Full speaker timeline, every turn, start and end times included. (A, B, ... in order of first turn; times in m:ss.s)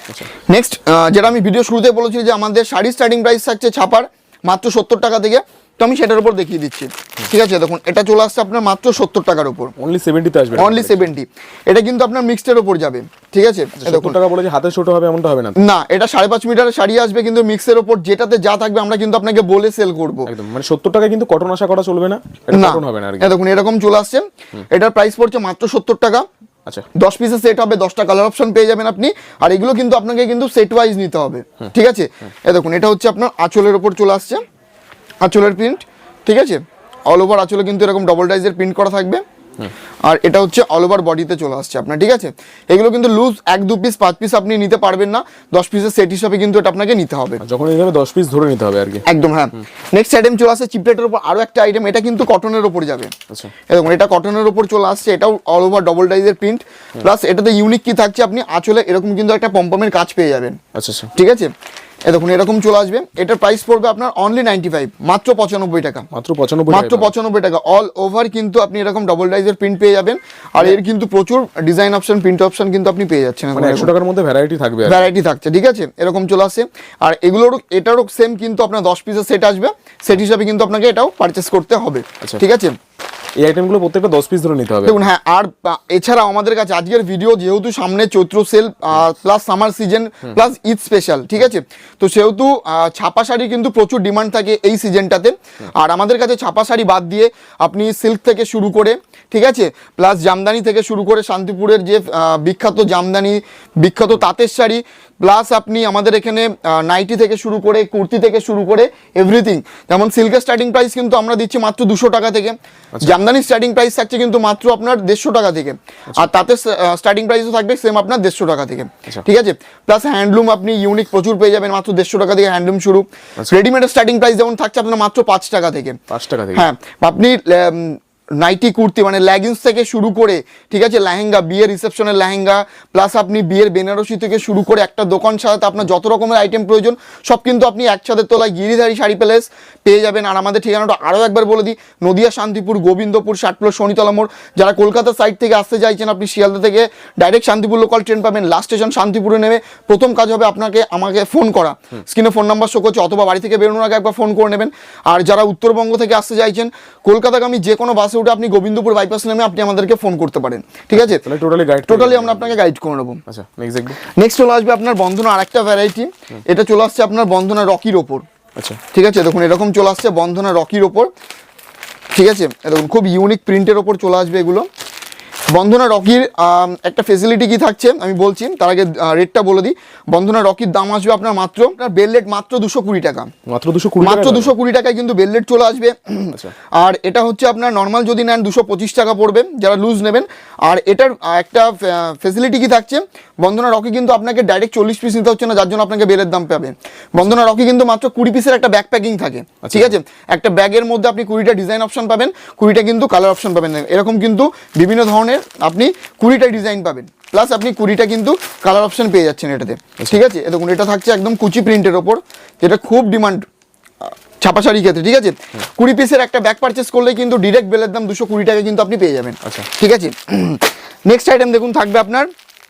0:00.5-0:09.7 A
0:09.8-0:11.1 B
0:10.6-0:14.2 A
0:13.8-0:15.6 B
0:15.6-0:20.3 A
0:20.3-0:23.3 B
0:22.5-0:26.3 A
0:27.0-0:34.4 A
0:35.2-0:39.2 A
0:40.1-0:47.4 A
0:47.4-0:49.1 B
0:49.1-0:53.1 A
0:53.7-1:00.6 A
1:00.8-1:01.1 B
1:01.1-1:01.5 A
1:02.1-1:06.1 A
1:06.1-1:07.1 B
1:06.7-1:13.9 A
1:13.5-1:15.1 B
1:14.9-1:22.8 A
1:23.4-1:25.1 B
1:24.8-2:06.0 A
2:06.1-2:06.7 B
2:06.5-2:41.2 A
2:40.9-2:42.6 B
2:41.9-2:43.2 A
2:43.3-2:44.0 B
2:44.1-2:48.2 A
2:48.9-2:51.1 A
2:52.2-2:54.7 A
2:55.5-3:03.3 A
3:03.5-3:04.5 B
3:04.0-3:33.5 A
3:19.7-3:20.0 B
3:34.1-3:42.3 A